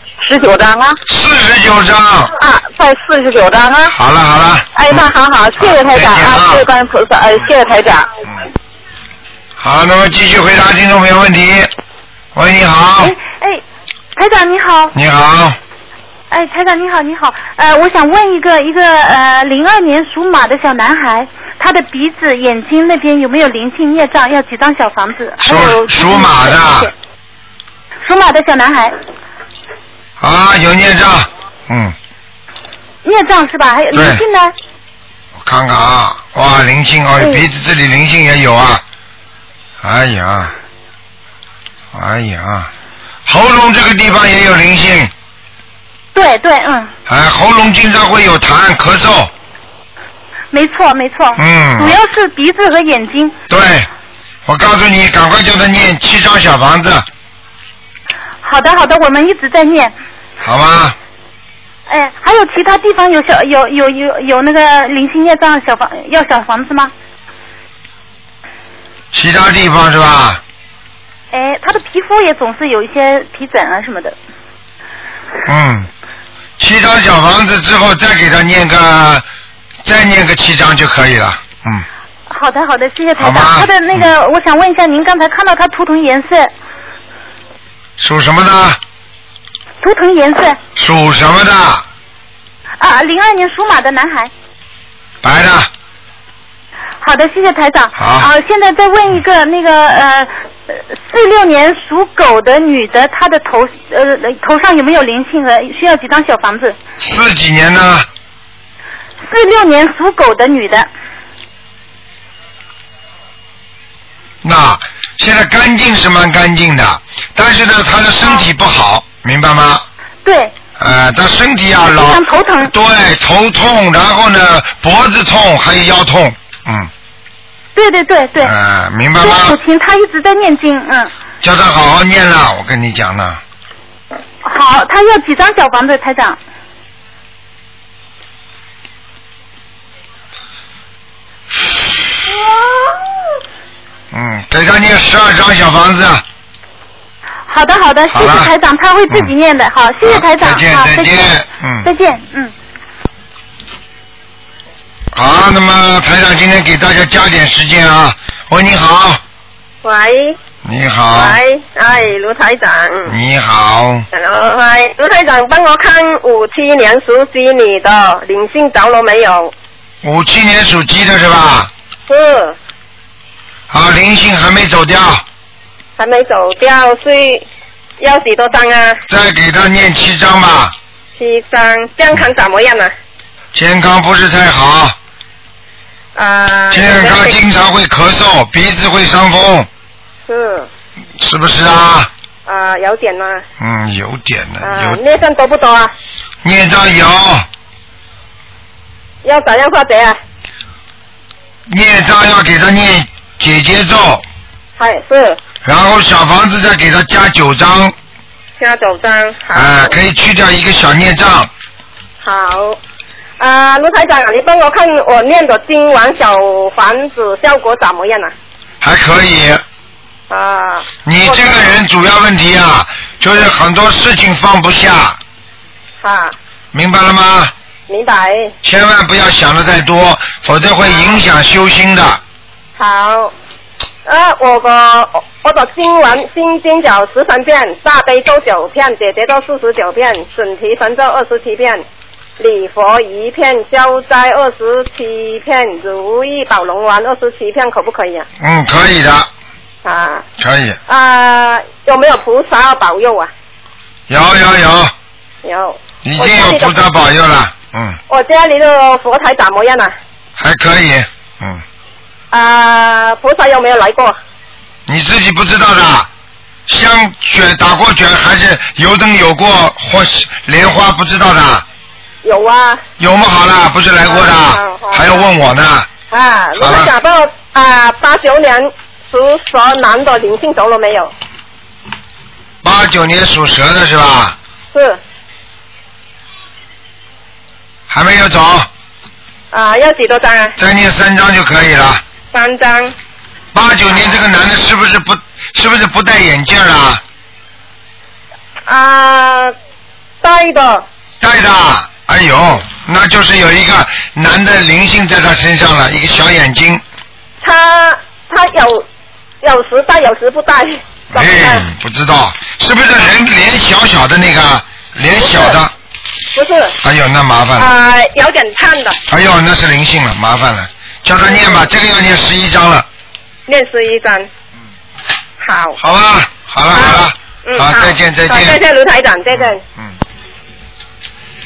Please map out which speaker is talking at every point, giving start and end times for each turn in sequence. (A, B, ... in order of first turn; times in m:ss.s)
0:00.2-0:01.0 A
0:01.1-0:02.3 B
0:02.4-0:03.9 A
0:03.9-0:06.6 B
0:04.7-0:08.1 A
0:09.6-0:11.7 B
0:12.3-0:13.1 B
0:13.0-0:13.6 C
0:14.1-0:14.9 C
0:14.9-0:15.6 B
0:16.3-0:26.8 C
0:25.4-0:26.9 B
0:28.0-0:28.9 C
0:30.2-0:31.9 B
0:33.0-0:34.5 C
0:33.9-0:34.2 B
0:35.4-0:38.8 B
0:37.2-0:37.4 C
0:39.8-0:40.5 B
0:41.9-0:42.7 B
0:43.2-0:45.1 B
0:46.1-0:46.9 C
0:47.1-0:49.3 B
0:50.5-0:53.4 C
0:51.4-0:52.0 B
0:53.5-0:53.9 B
0:54.5-0:57.0 B
0:58.4-0:59.9 C
1:00.4-1:01.0 B
1:01.9-1:06.9 C
1:09.1-1:10.4 B
1:11.3-1:14.2 C
1:15.4-1:15.9 B
1:16.6-1:19.2 B
1:19.8-1:21.8 B
1:22.3-1:26.5 C
1:23.2-1:24.1 B
1:28.0-1:28.8 B
1:29.8-1:30.6 C
1:30.8-1:31.8 B
1:32.8-1:34.3 C
1:35.2-1:35.7 B
1:37.0-1:46.8 C
1:38.0-1:38.3 B
1:47.0-1:48.1 B
1:49.2-1:50.9 C
1:54.4-1:59.8 B
2:00.2-2:00.5 C
2:00.8-2:06.9 B
2:01.9-2:02.7 C
2:07.7-2:08.5 C
2:08.4-2:09.6 B
2:09.2-2:11.1 C
2:11.4-2:13.4 B
2:14.4-2:16.4 C
2:24.1-2:26.2 B
2:27.5-2:31.3 C
2:28.1-2:28.5 B
2:30.0-2:31.9 B
2:31.8-2:32.5 C
2:35.1-2:39.2 B
2:39.8-2:40.4 D
2:40.6-2:41.4 B
2:41.1-2:43.1 D
2:43.1-2:44.0 B
2:44.1-2:49.5 D
2:50.0-2:51.7 B
2:52.1-2:52.6 D
2:53.7-2:55.2 B
2:56.0-2:57.4 D
2:58.0-2:59.0 D
2:59.1-3:00.7 B
3:01.2-3:02.9 D
3:03.5-3:05.0 B
3:06.2-3:07.4 D
3:06.7-3:09.7 B
3:10.3-3:10.7 D
3:11.2-3:12.1 B
3:12.5-3:13.4 D
3:13.6-3:15.0 B
3:14.6-3:15.9 D
3:16.4-3:17.5 B
3:19.2-3:20.2 D
3:21.7-3:24.2 B
3:24.8-3:25.4 D
3:25.6-3:27.9 B
3:28.6-3:29.9 D
3:29.5-3:31.5 B
3:32.2-3:32.8 D
3:33.4-3:38.3 D
3:38.8-3:39.6 B
3:40.3-3:41.7 D
3:41.0-3:45.2 B
3:46.0-3:46.3 D
3:46.7-3:47.5 B
3:47.9-3:48.5 D
3:48.6-3:52.2 B
3:50.8-3:51.2 D
3:52.8-3:53.3 D
3:54.0-4:01.8 D
4:02.4-4:08.2 D
4:08.4-4:09.3 B
4:09.8-4:10.2 D
4:10.4-4:10.8 B
4:10.9-4:13.3 D
4:14.1-4:14.9 B
4:15.4-4:16.8 D
4:16.0-4:18.0 B
4:18.1-4:19.9 D
4:20.4-4:21.6 B
4:22.3-4:24.2 D
4:24.9-4:26.1 B
4:26.7-4:31.6 B
4:32.2-4:32.8 D
4:33.0-4:35.9 B
4:34.0-4:35.3 D
4:36.1-4:41.1 D
4:36.6-4:36.9 B
4:42.6-4:44.4 B
4:44.7-4:45.0 D
4:47.9-4:48.7 B
4:49.5-4:50.5 D
4:50.6-4:52.0 B
4:52.3-4:52.9 D
4:53.5-4:57.0 B
4:58.7-4:59.5 D
5:00.2-5:00.8 D
5:01.2-5:06.8 B
5:07.4-5:08.8 D
5:09.4-5:11.6 D
5:11.1-5:15.7 B
5:15.2-5:15.6 D
5:16.3-5:16.7 D
5:16.8-5:17.7 B
5:17.6-5:19.0 D
5:19.1-5:22.9 B
5:21.2-5:21.6 D
5:23.5-5:24.3 D
5:25.4-5:25.8 D
5:25.8-5:28.6 B
5:26.7-5:29.6 D